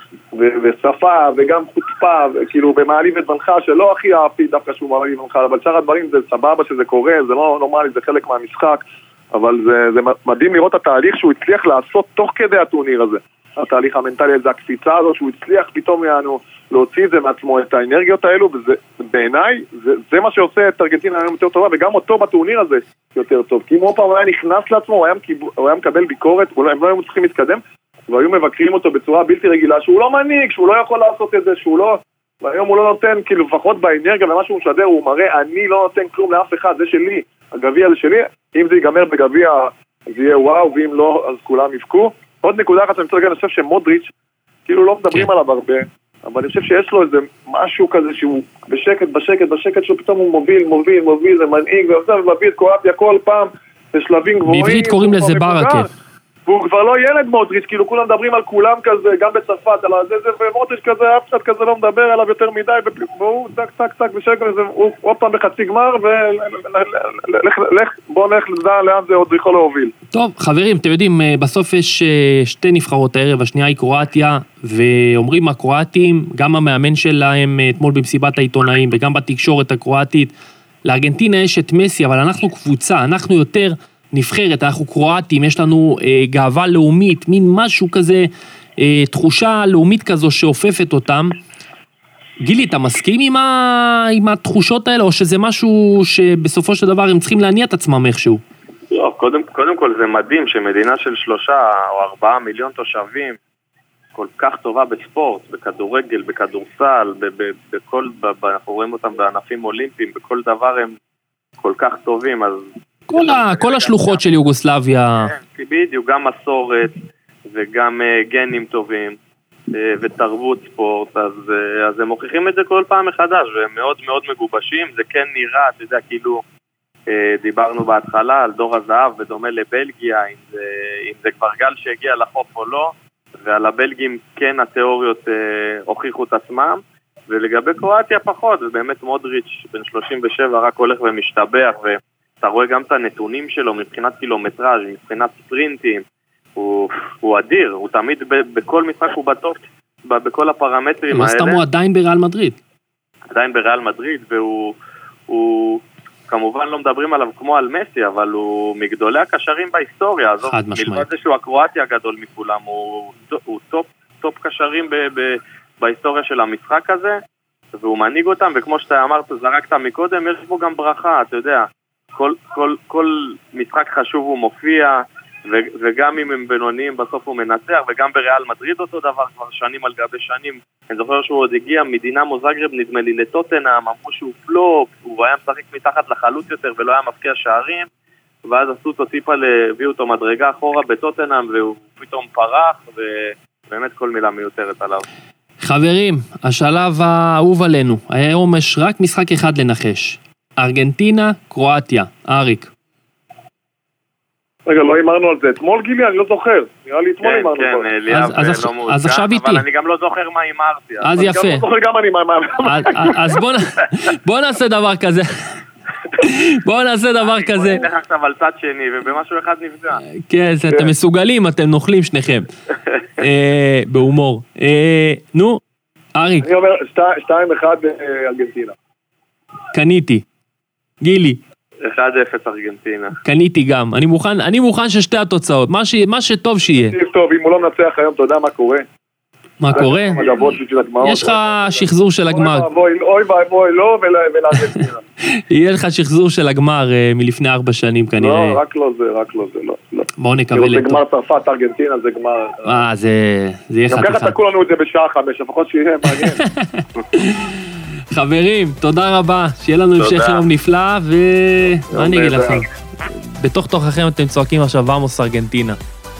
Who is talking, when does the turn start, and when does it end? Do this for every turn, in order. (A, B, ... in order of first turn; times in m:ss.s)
0:00.3-0:44.1 A
0:44.6-0:55.9 A
0:54.4-0:55.9 B
0:56.4-1:09.9 A
1:10.1-1:20.3 B
1:20.8-1:28.3 B
1:28.8-1:31.3 B
1:32.4-1:38.4 B
1:38.9-1:43.4 C
1:44.1-1:50.9 C
1:51.6-1:54.2 C
1:53.1-1:55.3 B
1:55.2-1:57.0 C
1:57.5-1:59.2 C
1:59.7-2:06.4 C
2:07.1-2:26.0 C
2:26.6-2:31.6 C
2:31.1-2:32.6 B
2:33.3-2:34.7 C
2:35.3-2:47.2 C
2:40.5-2:41.1 B
2:47.7-3:07.8 C
3:08.4-3:15.0 C
3:15.6-3:22.7 B
3:24.6-3:27.9 A
3:27.2-3:31.2 C
3:28.1-3:29.6 B
3:31.0-3:31.6 B
3:31.2-3:33.2 A
3:32.6-3:35.3 B
3:36.2-3:37.8 B
3:37.2-3:40.0 C
3:40.2-3:42.4 B
3:43.2-3:45.6 B
3:46.1-3:46.5 B
3:46.4-3:48.8 A
3:49.7-3:50.2 B
3:51.0-3:51.4 B
3:51.8-3:53.2 C
3:53.2-3:56.9 B
3:56.8-3:58.8 A
3:59.6-4:00.4 B
3:59.7-4:05.0 A
4:01.0-4:02.7 B
4:05.5-4:08.6 B
4:08.2-4:12.8 A
4:10.2-4:11.0 B
4:12.6-4:14.4 B
4:13.9-4:16.4 A
4:16.1-4:17.6 B
4:18.1-4:25.8 B
4:20.0-4:20.4 C
4:21.9-4:22.6 A